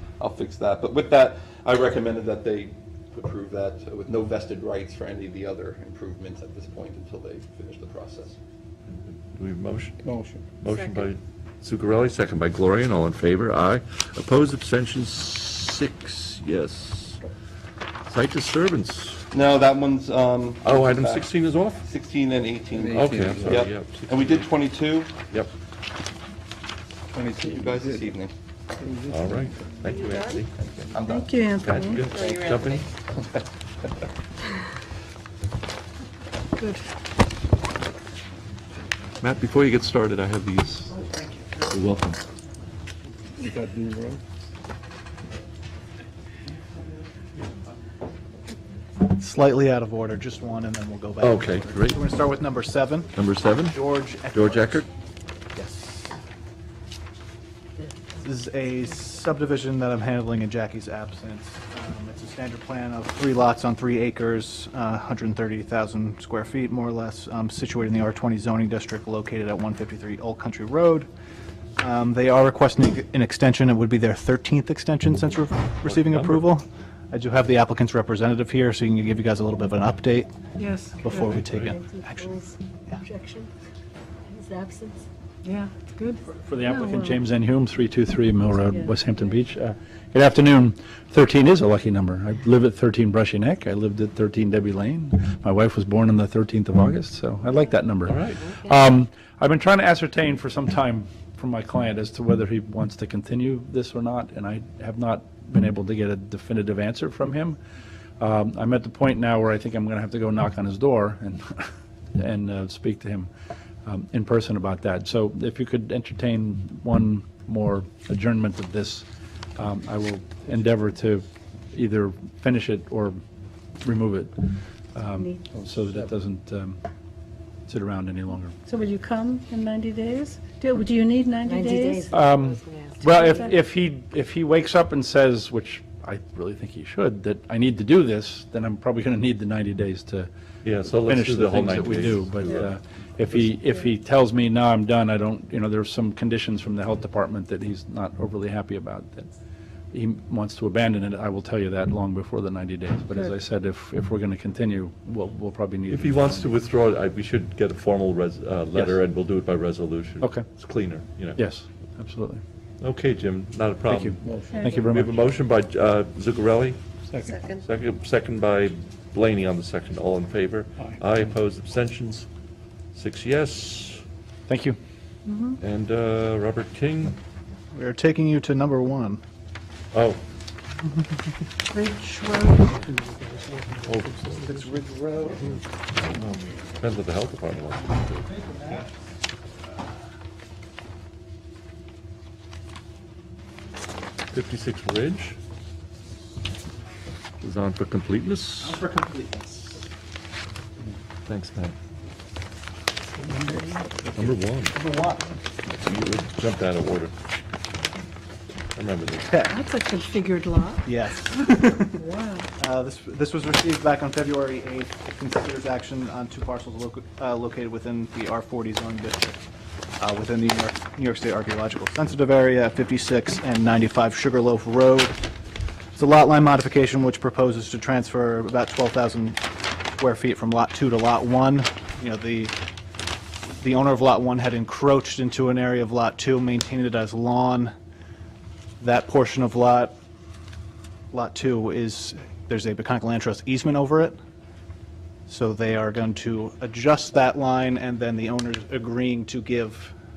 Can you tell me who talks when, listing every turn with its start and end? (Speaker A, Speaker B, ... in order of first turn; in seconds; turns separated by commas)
Speaker A: 0.2-8.4, Speaker B: 8.9-10.0, Speaker C: 10.0-10.5, Speaker B: 10.6-17.2, Speaker B: 18.1-19.3, Speaker A: 19.3-21.3, Speaker B: 20.6-21.9, Speaker A: 21.8-25.1, Speaker C: 22.8-23.6, Speaker B: 22.9-24.5, Speaker A: 27.1-28.3, Speaker C: 27.1-28.1, Speaker C: 28.8-29.6, Speaker B: 29.1-30.9, Speaker A: 30.9-31.3, Speaker D: 31.1-32.1, Speaker B: 31.6-32.9, Speaker A: 32.1-32.8, Speaker D: 36.6-36.9, Speaker B: 39.2-41.0, Speaker B: 41.7-42.2, Speaker C: 43.4-44.2, Speaker E: 49.0-54.9, Speaker B: 51.2-52.0, Speaker B: 53.1-53.8, Speaker B: 54.3-54.9, Speaker E: 55.5-56.1, Speaker E: 58.2-71.1, Speaker E: 71.8-80.3, Speaker B: 75.8-76.5, Speaker D: 80.6-81.4, Speaker E: 81.0-83.0, Speaker B: 81.3-81.7, Speaker F: 81.5-83.5, Speaker F: 84.3-85.1, Speaker D: 85.4-87.2, Speaker G: 86.3-107.6, Speaker B: 98.1-98.4, Speaker G: 108.2-113.3, Speaker G: 113.9-119.1, Speaker G: 119.6-123.2, Speaker G: 123.8-126.8, Speaker D: 125.2-125.4, Speaker G: 127.7-128.6, Speaker D: 128.7-132.2, Speaker F: 131.4-133.5, Speaker G: 132.1-140.3, Speaker D: 133.1-133.5, Speaker B: 140.6-142.7, Speaker G: 140.9-149.3, Speaker G: 149.9-156.6, Speaker B: 155.9-161.4, Speaker G: 160.2-160.5, Speaker G: 161.3-162.4, Speaker B: 162.8-166.8, Speaker G: 163.9-165.2, Speaker C: 164.2-164.9, Speaker D: 164.5-164.8, Speaker C: 167.1-167.4, Speaker B: 167.6-172.3, Speaker B: 172.9-174.0, Speaker G: 174.5-174.8, Speaker D: 175.2-175.6, Speaker B: 175.6-177.2, Speaker E: 177.7-179.2, Speaker B: 179.9-180.2, Speaker D: 181.7-183.0, Speaker C: 183.3-185.0, Speaker B: 183.9-184.4, Speaker E: 184.5-185.4, Speaker B: 185.9-188.2, Speaker E: 188.3-188.9, Speaker B: 194.3-195.4, Speaker B: 197.4-198.8, Speaker E: 198.6-199.9, Speaker B: 201.3-201.8, Speaker B: 204.2-204.8, Speaker E: 204.7-205.2, Speaker B: 205.7-207.1, Speaker B: 208.8-209.4, Speaker E: 209.3-209.6, Speaker D: 209.5-210.9, Speaker E: 210.8-212.0, Speaker D: 211.6-212.5, Speaker E: 212.6-219.4, Speaker E: 220.0-225.2, Speaker E: 225.9-229.4, Speaker E: 230.0-232.6, Speaker E: 233.6-237.7, Speaker E: 238.8-239.9, Speaker E: 241.1-244.2, Speaker E: 245.3-249.9